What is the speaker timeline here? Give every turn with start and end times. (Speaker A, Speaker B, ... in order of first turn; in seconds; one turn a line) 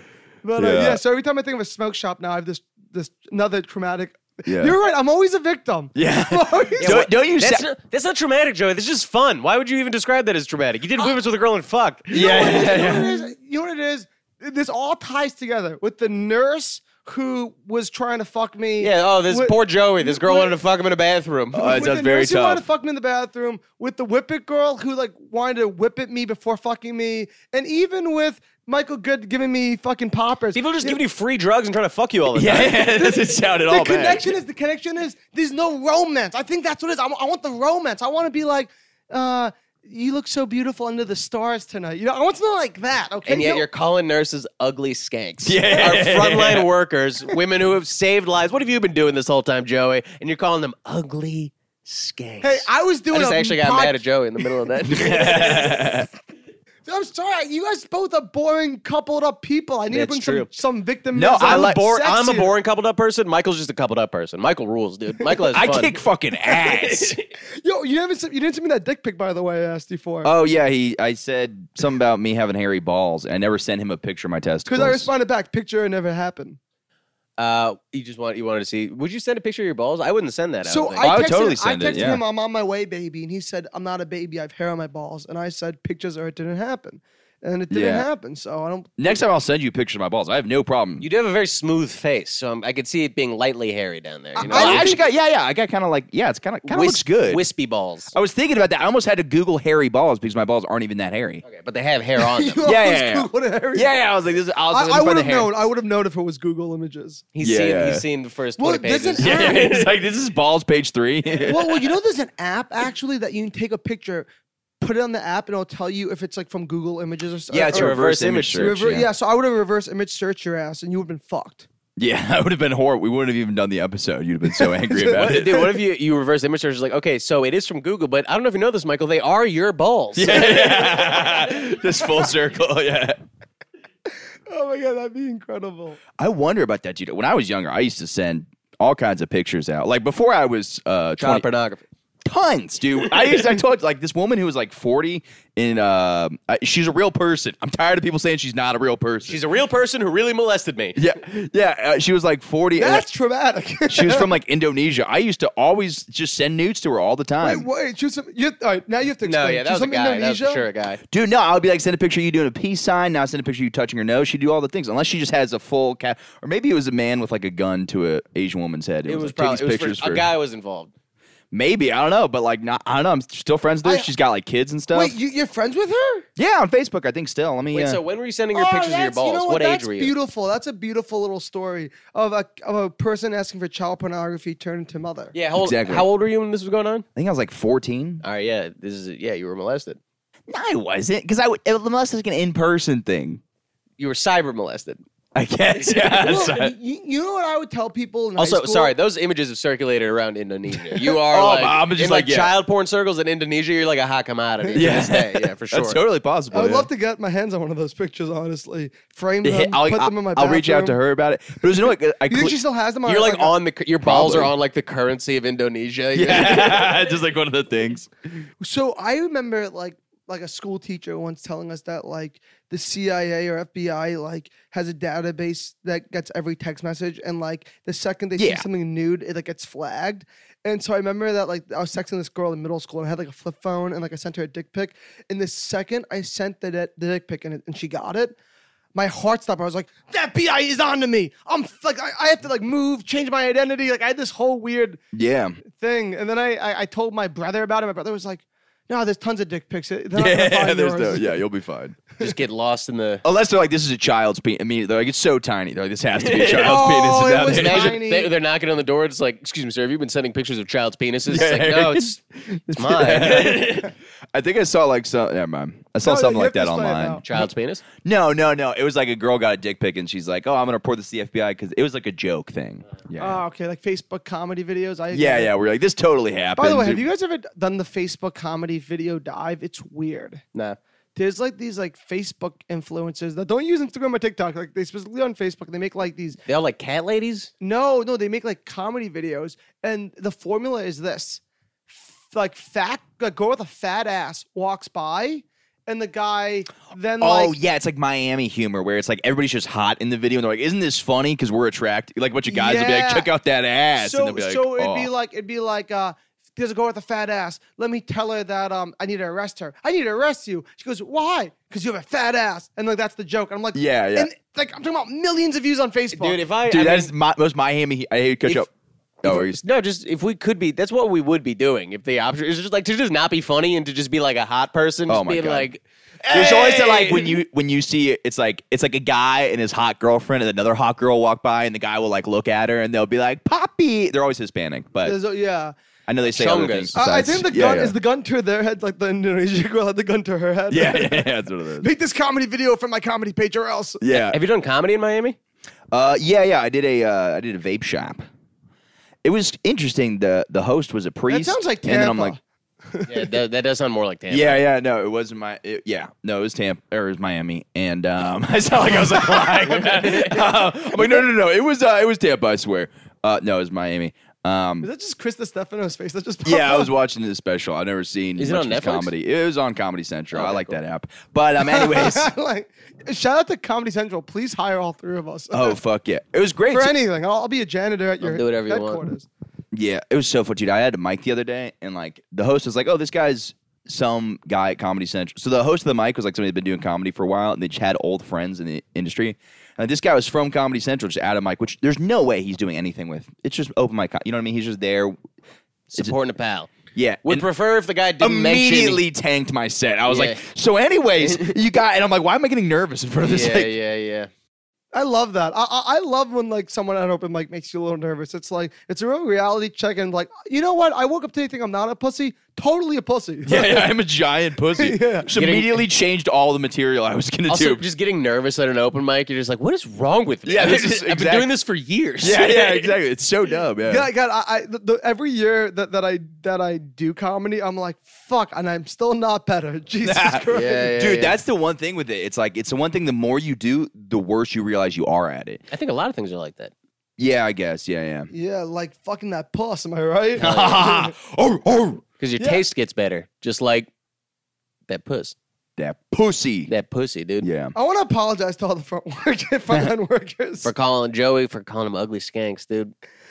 Speaker A: 0.4-7.0
Speaker B: 0.6-1.0
Speaker B: 4.4-4.7
Speaker B: 6.0-7.7
Speaker C: 6.8-12.3
Speaker A: 12.1-20.6
Speaker B: 12.1-13.2
Speaker C: 18.8-21.7
Speaker A: 21.5-31.0
Speaker B: 21.5-22.6
Speaker C: 30.5-32.8
Speaker B: 32.3-34.3
Speaker A: 32.9-43.6
Speaker C: 43.2-55.7
Speaker B: 45.4-46.7
Speaker A: 52.4-54.0
Speaker B: 54.9-56.1
Speaker A: 56.9-62.5
Speaker C: 59.9-60.5
Speaker B: 61.1-61.9
Speaker C: 61.4-66.0
Speaker B: 65.3-67.2
Speaker C: 66.5-67.3
Speaker A: 67.6-70.3
Speaker B: 70.2-75.1
Speaker A: 74.7-76.6
Speaker C: 77.4-81.1
Speaker A: 80.6-89.2
Speaker B: 81.0-82.2
Speaker B: 87.7-88.1
Speaker B: 89.0-91.0
Speaker C: 91.0-94.9
Speaker A: 94.3-95.0
Speaker B: 94.5-97.4
Speaker C: 96.6-98.1
Speaker B: 98.1-101.4
Speaker C: 101.4-102.6
Speaker A: 102.2-103.9
Speaker B: 102.6-105.5
Speaker A: 104.7-107.2
Speaker C: 107.3-109.8
Speaker B: 107.4-108.0
Speaker A: 108.6-109.9
Speaker B: 109.2-111.9
Speaker A: 111.4-114.3
Speaker A: 114.8-121.7
Speaker B: 117.5-119.1
Speaker C: 117.7-118.7
Speaker B: 122.0-125.5
Speaker A: 124.6-125.8
Speaker C: 125.0-131.5
Speaker B: 130.1-133.2
Speaker A: 134.5-136.0
Speaker B: 136.2-141.4
Speaker C: 141.2-141.8
Speaker B: 142.2-149.4
Speaker C: 143.1-143.5
Speaker C: 149.2-151.0
Speaker B: 150.9-153.0
Speaker A: 152.8-154.3
Speaker B: 153.9-157.7
Speaker A: 157.4-160.6
Speaker C: 159.2-161.0
Speaker B: 161.1-170.3
Speaker C: 169.1-170.9
Speaker B: 171.5-175.1
Speaker A: 173.8-174.1
Speaker A: 174.9-176.3
Speaker B: 176.4-178.0
Speaker C: 177.7-180.1
Speaker A: 178.5-185.3
Speaker C: 185.3-187.0
Speaker B: 185.5-186.1
Speaker B: 187.2-188.2
Speaker C: 188.2-190.0
Speaker B: 190.5-193.4
Speaker C: 194.0-195.0
Speaker B: 195.3-196.7
Speaker A: 196.1-198.9
Speaker C: 198.4-206.0
Speaker B: 201.0-202.5
Speaker B: 204.8-206.9
Speaker A: 206.5-211.0
Speaker B: 209.4-212.6
Speaker A: 212.3-213.6
Speaker C: 213.1-216.9
Speaker B: 214.0-214.5
Speaker B: 216.1-218.1
Speaker A: 218.6-238.3
Speaker B: 228.4-228.7
Speaker A: 238.9-245.0
Speaker B: 245.1-245.6
Speaker A: 245.7-251.4
Speaker B: 250.1-252.0
Speaker C: 252.2-253.2
Speaker B: 253.2-258.0
Speaker C: 256.2-256.9
Speaker A: 256.5-258.3
Speaker C: 257.5-262.2
Speaker B: 261.3-262.1
Speaker C: 262.7-263.9
Speaker B: 262.8-267.5
Speaker A: 266.0-267.2
Speaker C: 267.2-267.8
Speaker B: 268.0-273.4
Speaker A: 273.2-275.5
Speaker B: 275.1-277.0
Speaker A: 276.6-280.4
Speaker A: 281.1-286.4
Speaker C: 286.5-287.5
Speaker A: 287.6-297.5
Speaker B: 297.2-305.1
Speaker A: 302.5-303.3
Speaker A: 304.0-316.4
Speaker B: 313.7-314.3
Speaker C: 316.1-317.1
Speaker B: 316.6-318.7
Speaker B: 319.2-319.6
Speaker C: 319.2-327.4
Speaker B: 325.1-325.7
Speaker B: 326.3-335.1
Speaker A: 335.0-335.7
Speaker B: 336.1-337.9
Speaker C: 336.3-336.9
Speaker A: 336.9-344.0
Speaker B: 340.7-341.9
Speaker B: 344.0-344.4
Speaker C: 344.2-345.4
Speaker B: 345.9-348.2
Speaker B: 349.2-352.3
Speaker A: 351.3-352.4
Speaker A: 352.9-353.3
Speaker C: 353.1-354.6
Speaker B: 354.3-364.9
Speaker C: 359.5-360.4
Speaker A: 364.8-366.9
Speaker B: 366.4-372.3
Speaker C: 368.4-369.1
Speaker C: 370.3-370.8
Speaker A: 371.6-375.8
Speaker B: 375.5-376.9
Speaker A: 376.7-379.3
Speaker C: 378.2-379.0
Speaker B: 379.7-395.2
Speaker C: 395.9-396.7
Speaker B: 396.9-397.5
Speaker C: 397.2-399.0
Speaker B: 398.2-403.7
Speaker C: 400.1-400.4
Speaker C: 401.2-401.5
Speaker C: 403.2-404.3
Speaker A: 404.9-413.9
Speaker B: 413.4-417.8
Speaker A: 414.7-415.3
Speaker C: 415.3-415.8
Speaker C: 417.5-422.8
Speaker B: 420.4-421.5
Speaker B: 422.2-424.1
Speaker A: 423.8-430.9
Speaker B: 430.0-435.6
Speaker C: 430.5-431.3
Speaker C: 435.7-436.7
Speaker B: 437.2-438.3
Speaker A: 438.3-441.1
Speaker B: 440.4-442.0
Speaker C: 440.4-440.8
Speaker C: 442.2-443.9
Speaker A: 442.4-442.6
Speaker C: 444.9-445.4
Speaker B: 445.8-446.7
Speaker C: 446.7-447.5
Speaker B: 447.4-447.7
Speaker A: 447.7-450.7
Speaker C: 450.6-452.9